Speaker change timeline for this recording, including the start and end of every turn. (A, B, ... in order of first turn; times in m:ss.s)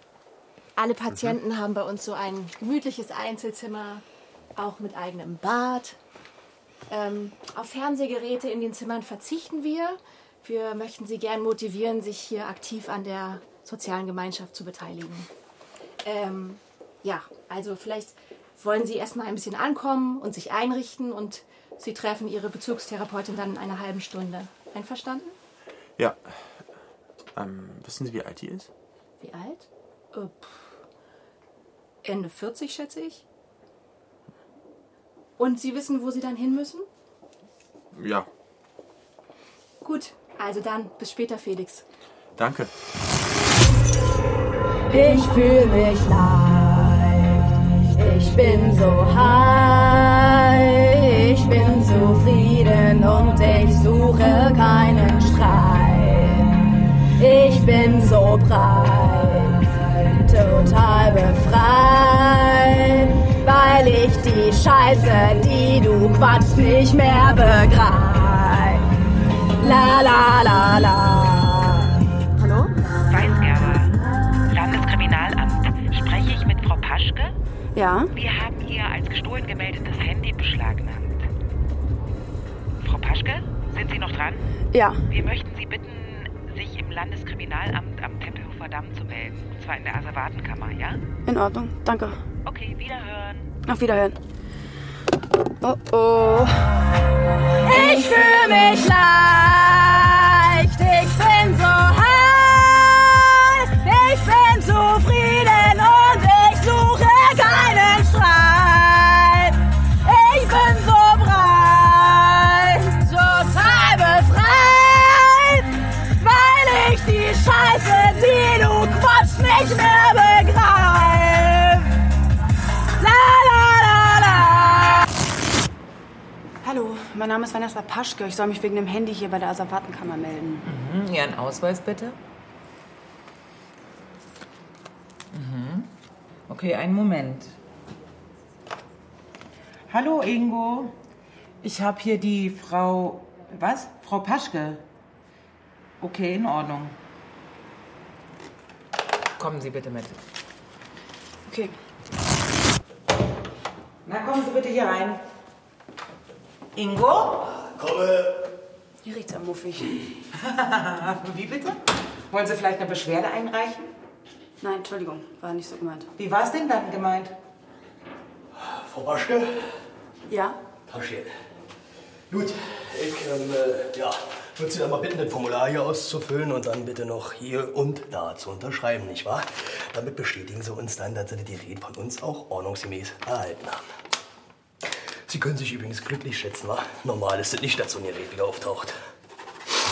0:00.8-0:04.0 A
0:04.6-0:06.0 A
0:06.9-0:15.3 A
0:16.0-0:25.4 A
0:27.4-0:28.7 B
0:29.2-0:30.7 A
0:32.0-0:33.2 A
0:35.4-0:36.9 A
0:37.9-0:38.3 B
0:39.8-0:41.8 A
0:42.4-0:42.7 B
0:44.9-0:56.6 C
0:57.2-1:08.9 C
1:09.6-1:11.9 C
1:13.1-1:13.9 D
1:14.5-1:17.3 D
1:17.8-1:18.1 E
1:18.1-1:21.3 D
1:22.8-1:24.4 D
1:24.7-1:25.0 E
1:25.1-1:31.0 D
1:31.2-1:32.2 E
1:32.4-1:33.5 D
1:33.6-1:34.2 E
1:35.6-1:36.7 E
1:37.6-2:02.0 C
2:03.0-2:05.0 C
2:06.6-2:10.6 E
2:10.6-2:12.2 F
2:15.3-2:15.9 F
2:16.5-2:17.6 F
2:19.9-2:21.0 F
2:21.6-2:24.8 F
2:26.0-2:27.0 F
2:29.4-2:30.2 F
2:31.5-2:31.8 E
2:34.0-2:35.2 F
2:36.8-2:37.6 F
2:37.8-2:38.1 G
2:39.0-2:40.1 E
2:40.4-2:43.9 F
2:44.6-2:46.1 E
2:46.2-2:47.3 F
2:48.6-2:49.8 G
2:50.3-2:50.6 E
2:50.9-2:51.3 G
2:52.3-3:03.8 G
3:05.3-3:09.0 G